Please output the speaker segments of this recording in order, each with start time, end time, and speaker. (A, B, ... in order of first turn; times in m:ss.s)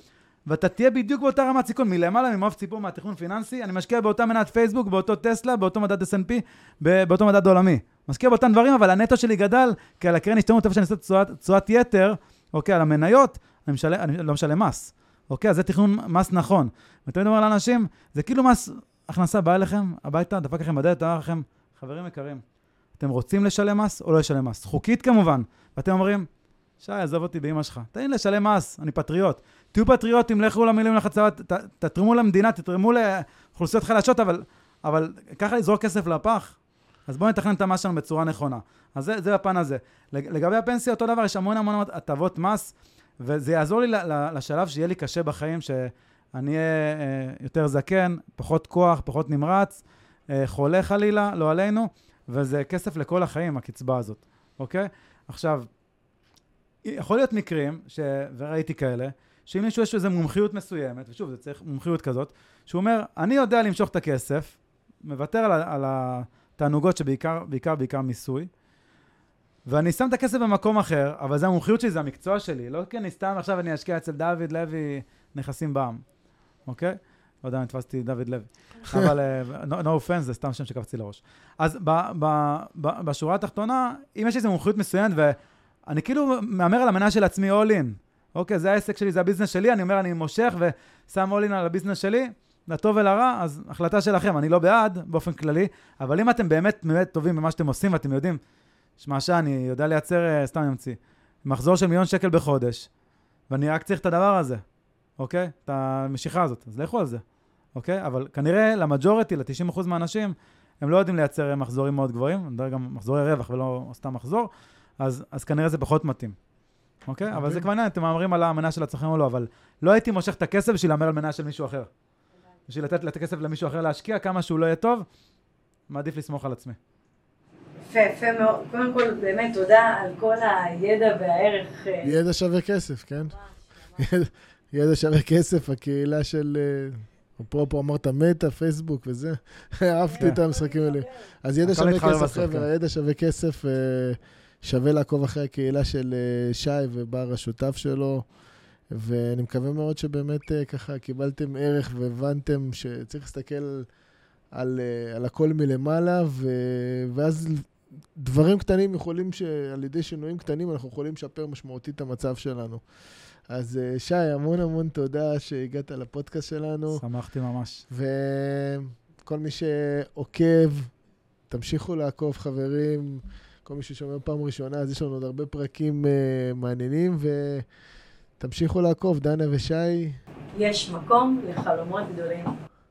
0:00.5-0:22.4 A
0:23.0-0:26.3 A
0:26.8-0:36.6 A
0:37.1-0:55.7 A
0:56.8-1:08.5 A
1:09.6-1:16.0 A
1:16.6-1:25.4 A
1:25.9-1:38.4 A
1:39.0-1:42.9 A
1:43.5-1:44.6 A
1:45.2-1:47.2 A
1:47.7-1:56.4 A
1:57.1-2:01.9 A
1:57.3-1:57.7 B
2:02.7-2:05.1 A
2:05.9-2:06.8 A
2:07.8-2:12.1 C
2:12.0-2:13.4 B
2:14.0-2:28.2 B
2:20.1-2:21.1 C
2:21.6-2:22.7 A
2:28.9-2:33.8 B
2:34.5-2:42.8 B
2:43.5-2:47.0 B
2:46.9-2:47.8 A
2:47.9-2:50.9 B
2:51.5-2:57.6 B
2:58.4-3:00.2 B
3:00.5-3:02.5 C